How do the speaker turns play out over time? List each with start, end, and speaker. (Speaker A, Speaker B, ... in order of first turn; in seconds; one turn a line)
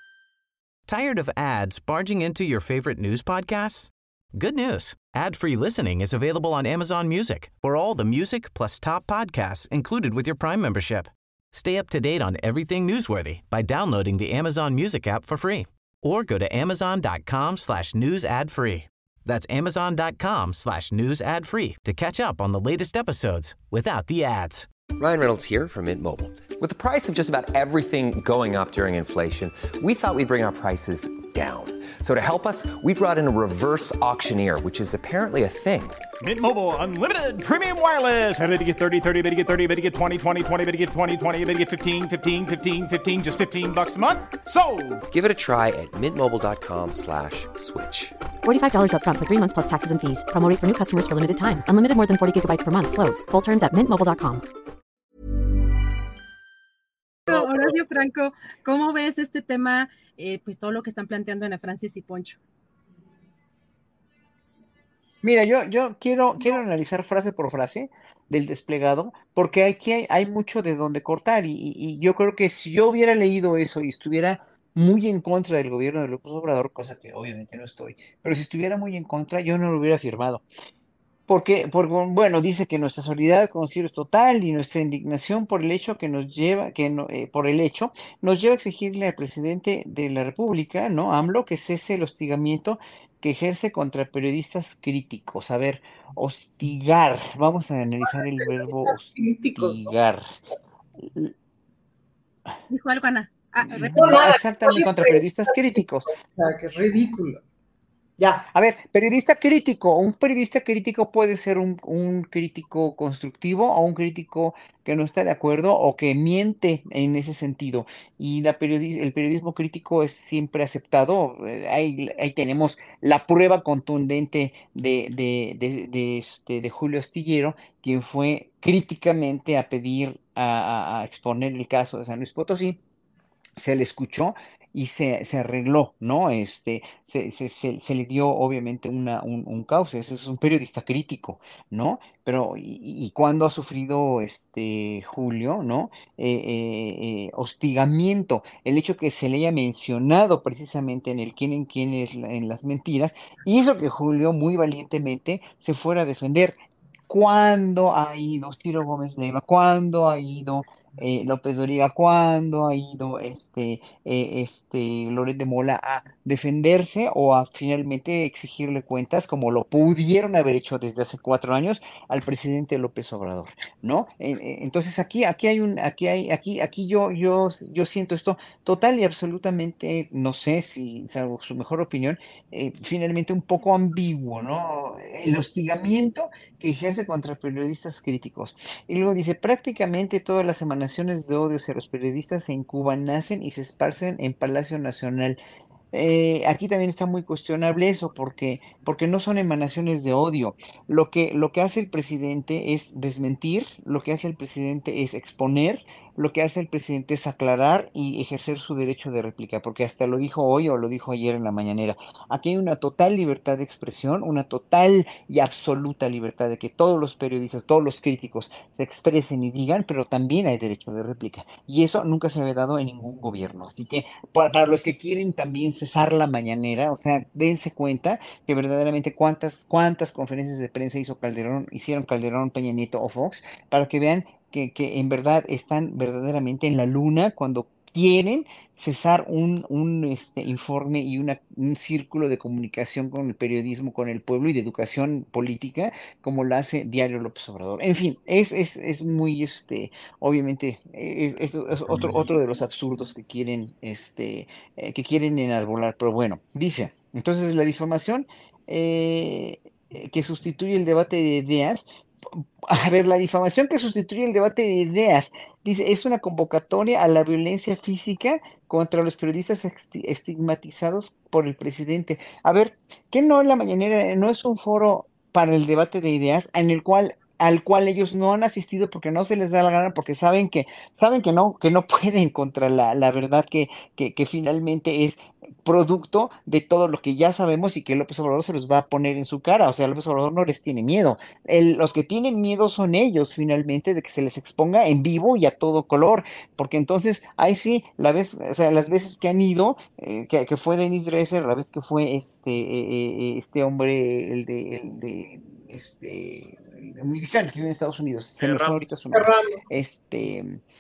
Speaker A: 0.9-24.7
Speaker B: 25.0-36.0
Speaker C: 36.2-45.0
Speaker B: 45.1-48.1
Speaker D: 48.4-54.4
Speaker E: 57.3-62.4
Speaker F: 65.2-80.5
Speaker F: 81.3-100.3
Speaker G: 98.1-100.0
Speaker E: 102.7-103.9
Speaker F: 103.7-106.1
Speaker G: 103.9-107.4
Speaker G: 108.2-108.5
Speaker F: 108.5-132.8
Speaker F: 133.6-195.4
Speaker F: 195.9-310.6
Speaker C: 308.4-308.8
Speaker G: 309.1-309.6